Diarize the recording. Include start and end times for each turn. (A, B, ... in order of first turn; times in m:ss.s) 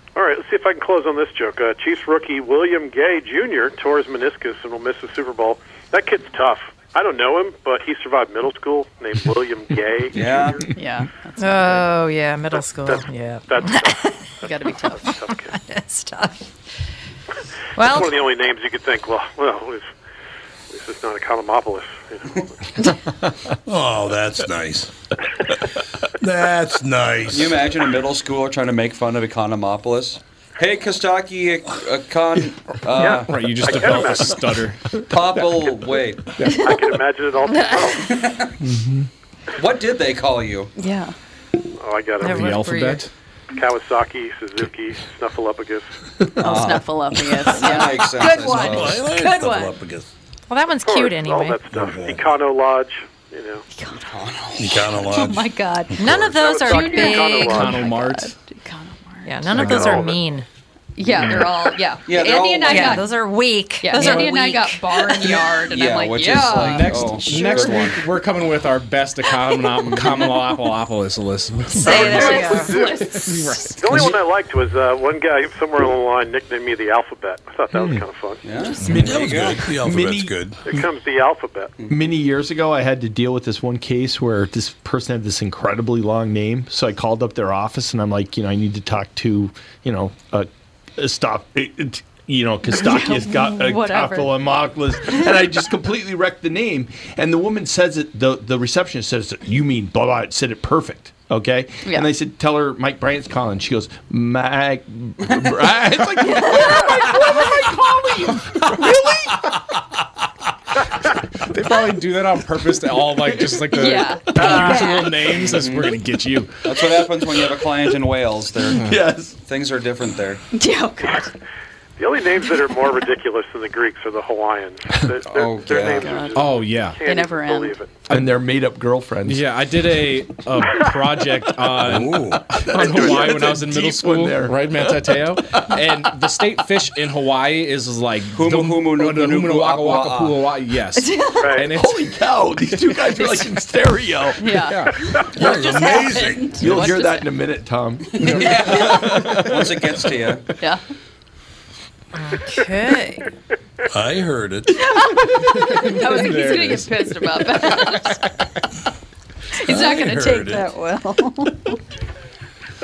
0:00.1-0:10.6 A
0:10.1-0:10.7 B
0:10.1-0:10.7 C
0:10.7-0:12.0 D
0:11.4-0:14.0 E
0:12.9-0:15.6 A
0:14.4-0:15.1 D
0:15.1-0:16.5 E
0:17.8-0:18.2 E
0:17.8-0:19.9 A
0:20.7-0:22.9 A
0:23.7-0:24.9 F
0:26.2-0:27.7 F
0:27.3-0:33.8 B
0:33.0-0:34.6 A
0:33.0-0:37.0 G
0:35.1-0:36.4 B
0:36.5-0:38.3 A
0:38.0-0:38.5 B
0:38.6-0:39.1 C
0:39.5-0:40.7 B
0:40.8-0:41.1 D
0:41.8-0:42.7 A
0:42.2-0:43.0 E
0:42.3-0:43.1 G
0:42.3-0:43.0 D
0:43.6-0:45.9 A
0:46.4-0:46.9 B
0:46.4-0:49.7 D
0:47.4-0:49.0 B
0:48.2-0:48.7 E
0:48.3-0:50.1 F
0:50.5-0:51.6 E
0:50.8-0:53.6 A
0:51.7-0:52.2 F
0:53.7-0:54.0 D
0:54.0-0:55.2 B
0:54.6-0:56.3 F
0:54.8-1:00.0 D
0:56.0-0:57.7 E
0:56.3-0:57.8 A
0:57.4-0:58.3 G
0:59.3-1:00.4 E
0:59.5-1:00.1 G
0:59.5-1:00.2 A
1:01.0-1:03.2 D
1:01.2-1:01.5 G
1:02.0-1:03.0 B
1:02.7-1:05.3 E
1:03.8-1:07.9 D
1:05.3-1:08.0 B
1:06.4-1:14.2 G
1:09.8-1:10.4 D
1:09.8-1:10.1 B
1:11.7-1:13.7 D
1:11.8-1:12.8 E
1:12.4-1:13.0 A
1:13.8-1:18.4 A
1:17.7-1:18.0 C
1:18.4-1:19.6 B
1:18.5-1:19.1 D
1:18.8-1:20.8 C
1:18.8-1:20.6 F
1:20.6-1:21.7 A
1:21.8-1:22.0 B
1:21.9-1:49.5 C
1:32.7-1:34.5 D
1:41.8-1:42.1 D
1:46.2-1:47.6 D
1:51.4-1:57.1 G
1:53.7-1:55.9 D
1:55.4-1:55.9 B
1:56.6-2:00.4 B
1:58.7-1:59.0 G
1:58.7-1:59.4 C
2:00.5-2:01.3 D
2:02.0-2:07.9 A
2:05.2-2:06.3 B
2:05.8-2:06.5 D
2:06.3-2:07.0 G
2:07.0-2:07.8 D
2:08.1-2:08.4 G
2:08.1-2:09.4 C
2:09.2-2:22.2 G
2:11.8-2:12.4 F
2:12.5-2:15.8 C
2:18.3-2:20.4 B
2:21.0-2:21.7 D
2:21.4-2:21.7 A
2:21.7-2:24.6 C
2:23.1-2:23.6 D
2:24.4-2:27.3 D
2:24.6-2:25.0 G
2:25.3-2:26.6 F
2:26.6-2:30.0 C
2:28.1-2:30.5 B
2:28.2-2:29.4 D
2:32.1-2:33.3 E
2:33.9-2:34.8 F
2:34.7-2:38.3 D
2:35.4-2:38.3 G
2:39.6-2:41.8 D
2:39.6-2:40.7 F